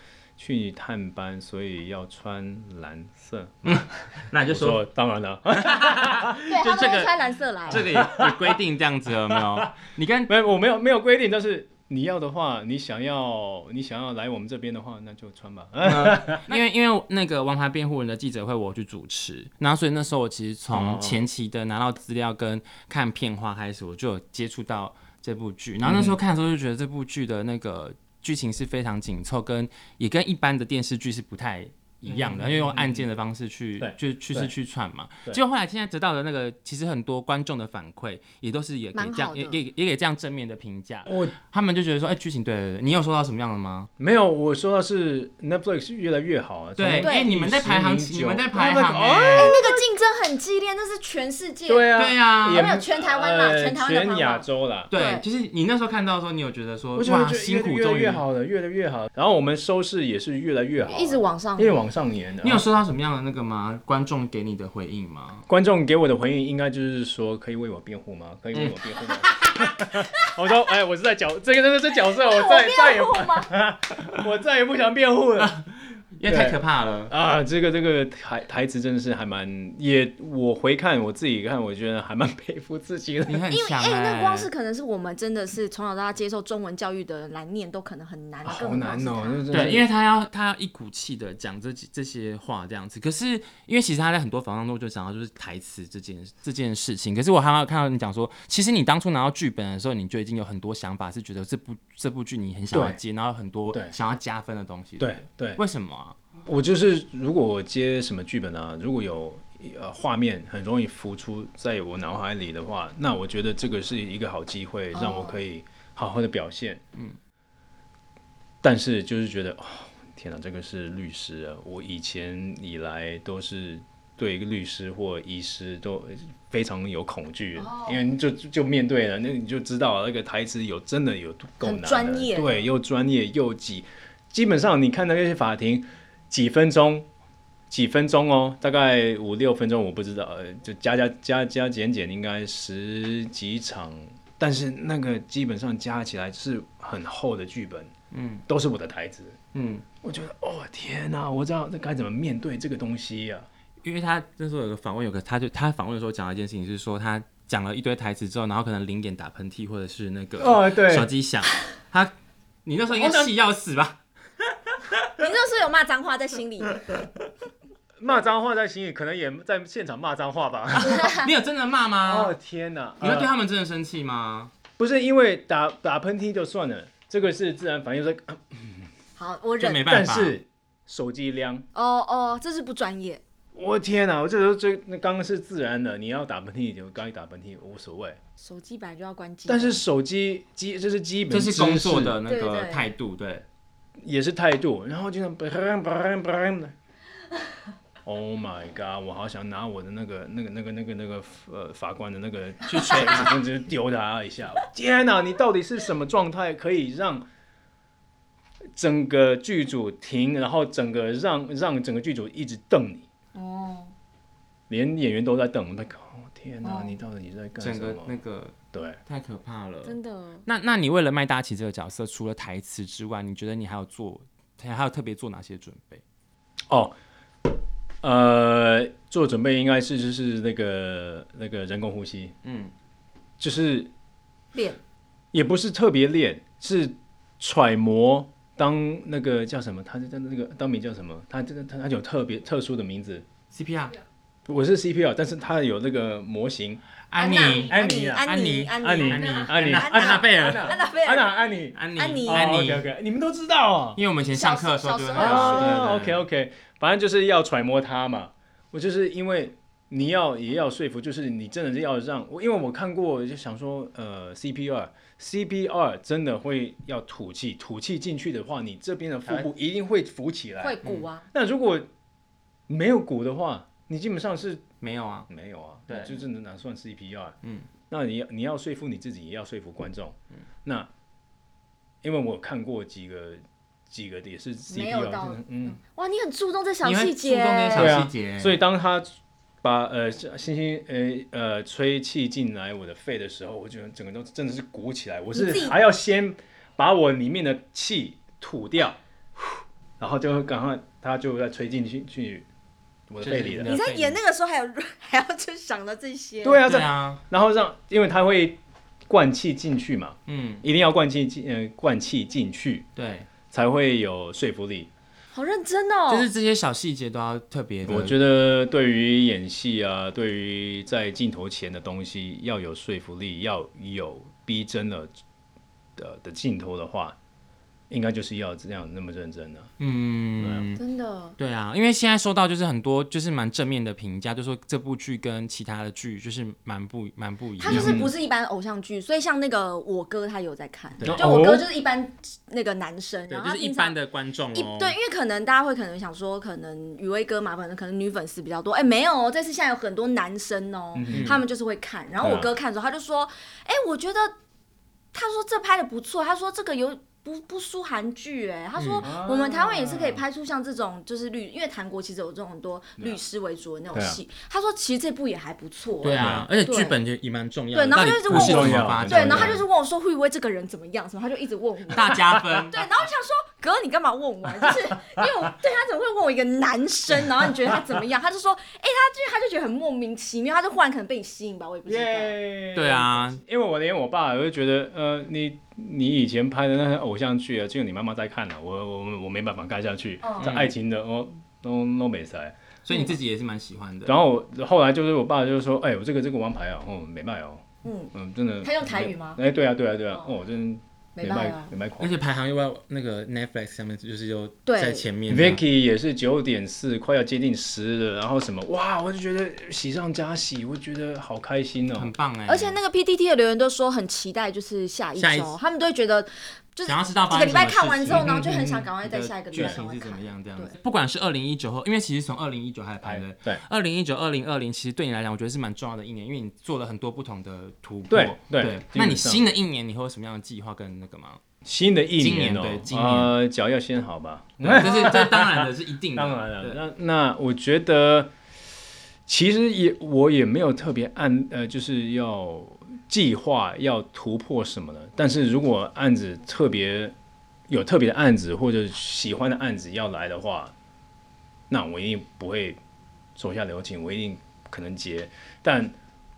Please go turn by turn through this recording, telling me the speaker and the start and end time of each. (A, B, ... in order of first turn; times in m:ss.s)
0:00.4-0:06.4 A
0:03.6-0:04.8 B
0:05.6-0:10.3 B
0:06.4-0:07.8 C
0:07.7-0:08.6 A
0:09.3-0:09.7 A
0:10.3-0:16.5 A
0:15.8-0:43.9 B
0:20.7-0:21.2 A
0:25.8-0:26.2 A
0:32.1-0:33.0 A
0:33.8-0:34.5 A
0:39.0-0:39.6 C
0:41.1-0:41.3 A
0:44.0-0:49.8 A
0:46.8-0:49.6 B
0:47.0-0:47.3 C
0:49.3-0:55.2 C
0:51.7-0:54.9 A
0:52.0-0:52.7 B
0:54.9-0:58.2 B
0:57.0-1:02.6 A
1:00.8-1:01.8 C
1:02.4-1:05.4 B
1:05.5-1:15.6 A
1:08.5-1:09.8 B
1:12.0-1:13.5 C
1:15.4-1:17.1 B
1:16.2-1:23.4 A
1:23.3-1:24.5 B
1:23.5-1:29.4 C
1:28.4-1:29.9 A
1:29.5-1:46.2 B
1:42.7-1:43.0 A
1:45.0-1:45.6 A
1:46.5-1:56.8 A
1:54.9-1:55.4 C
1:58.6-2:17.1 A
2:07.6-2:08.0 C
2:11.6-2:12.7 C
2:17.7-2:27.9 A
2:28.1-2:28.4 B
2:28.5-2:29.4 A
2:29.5-2:29.8 B
2:30.0-2:33.5 A
2:33.8-2:42.1 B
2:40.4-2:41.1 A
2:42.6-2:45.0 B
2:42.9-2:43.3 A
2:45.2-2:46.8 C
2:48.0-2:51.1 A
2:50.8-2:52.4 B
2:50.9-2:51.3 C
2:52.0-2:53.3 A
2:53.0-2:54.5 B
2:54.8-2:58.9 A
2:59.2-2:59.9 C
2:59.6-3:00.4 B
2:59.9-3:01.6 A
3:01.7-3:03.2 C
3:03.6-3:08.2 A
3:08.4-3:09.8 C
3:09.5-3:12.2 A
3:11.3-3:13.5 B
3:12.3-3:12.9 C
3:14.0-3:16.7 A
3:18.0-3:27.3 A
3:22.7-3:23.4 B
3:28.8-3:33.1 A
3:33.4-3:33.9 C
3:34.7-3:38.2 A
3:36.6-3:36.9 C
3:37.6-3:46.0 B
3:38.7-3:39.0 A
3:39.8-3:40.5 C
3:48.0-3:52.3 A
3:52.4-3:52.7 B
3:53.4-3:53.9 A
3:54.5-3:54.8 C
3:55.3-4:03.3 A
4:03.5-4:04.0 B
4:04.5-4:06.8 A
4:07.1-4:10.8 B
4:07.2-4:12.6 C
4:07.5-4:08.3 A
4:08.8-4:14.0 A
4:11.8-4:12.9 B
4:14.0-4:16.2 B
4:14.3-4:15.9 C
4:15.2-4:30.8 A
4:30.6-4:31.3 C
4:31.3-4:31.9 A
4:32.7-4:34.6 A
4:34.8-4:35.3 B
4:35.3-4:37.4 A
4:35.9-4:36.2 B
4:37.4-4:37.7 B
4:37.9-4:40.9 A
4:42.0-4:45.8 A
4:44.7-4:48.0 C
4:46.8-4:48.6 B
4:47.8-5:02.5 A
4:55.3-4:55.8 C
5:03.1-5:03.7 A
5:03.2-5:04.2 B
5:03.6-5:06.6 C
5:06.4-5:12.9 A
5:06.6-5:07.2 B
5:10.3-5:10.6 B
5:13.0-5:13.3 B
5:13.5-5:14.9 A
5:15.3-5:16.3 C
5:16.1-5:18.2 B
5:17.9-5:25.1 A
5:26.0-5:27.2 A
5:27.9-5:29.7 A
5:29.8-5:30.8 B
5:30.4-5:30.7 A
5:30.8-5:31.4 C
5:31.4-5:38.0 B
5:37.6-5:44.0 C
5:37.7-5:38.1 A
5:41.0-5:41.7 A
5:43.3-5:45.0 B
5:44.5-5:54.3 C
5:51.0-5:51.4 A
5:51.1-5:51.4 B
5:52.2-5:52.5 A
5:55.1-6:07.0 C
5:58.8-5:59.1 B
5:59.0-6:00.2 A
6:03.9-6:04.2 A
6:06.0-6:09.6 B
6:06.2-6:06.5 A
6:07.7-6:22.4 C
6:08.3-6:09.6 A
6:11.9-6:12.8 B
6:12.1-6:12.6 A
6:14.6-6:15.2 A
6:21.9-6:32.6 A
6:22.8-6:23.4 B
6:30.2-6:30.5 C
6:30.4-6:30.7 B
6:32.9-6:34.2 B
6:32.9-6:33.2 C
6:34.0-6:42.1 A
6:37.8-6:39.4 C
6:41.2-6:41.7 C
6:42.0-6:45.6 B
6:44.7-6:45.1 C
6:45.3-6:52.1 A
6:52.0-6:52.8 B
6:52.5-7:00.8 C
6:55.2-6:55.6 B
6:56.9-6:58.4 B
6:58.1-6:58.9 A
6:59.0-7:11.4 B
6:59.5-6:59.8 A
7:03.0-7:03.6 A
7:08.1-7:09.4 A
7:11.6-7:18.3 A
7:12.2-7:13.3 B
7:14.6-7:16.8 B
7:19.3-7:27.2 A
7:27.7-7:30.7 A
7:31.7-7:32.8 A
7:33.4-7:36.0 A